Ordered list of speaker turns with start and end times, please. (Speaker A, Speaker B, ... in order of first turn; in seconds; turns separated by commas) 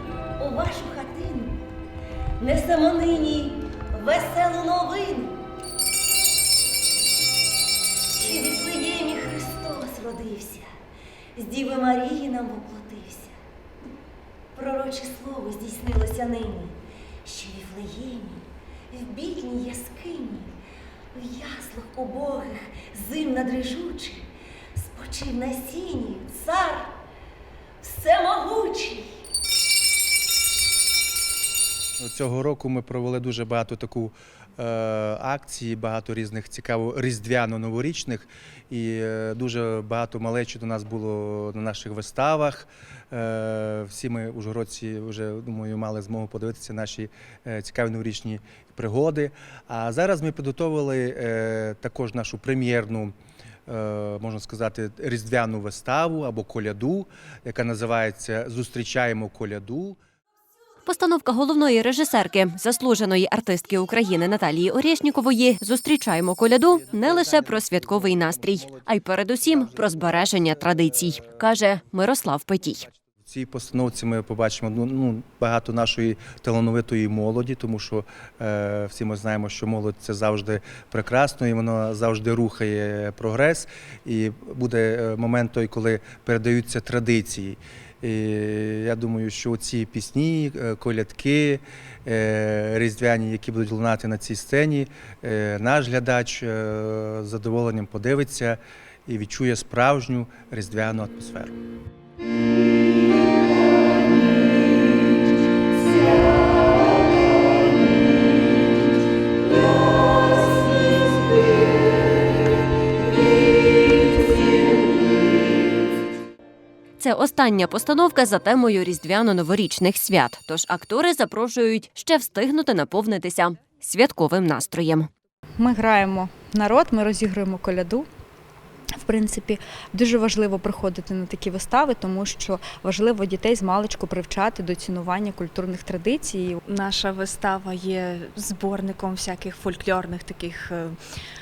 Speaker A: 0.4-1.6, Speaker A: 2.4-5.4, Speaker A: 8.2-10.7, Speaker A: 11.4-13.3, Speaker A: 14.6-20.5, Speaker A: 21.1-24.2, Speaker A: 24.8-26.9, Speaker A: 27.8-29.1, Speaker B: 32.0-53.1, Speaker B: 53.7-60.0, Speaker C: 60.9-72.9, Speaker B: 73.2-101.5, Speaker C: 117.0-125.1, Speaker D: 125.6-128.1, Speaker D: 129.0-136.6, Speaker E: 136.7-141.0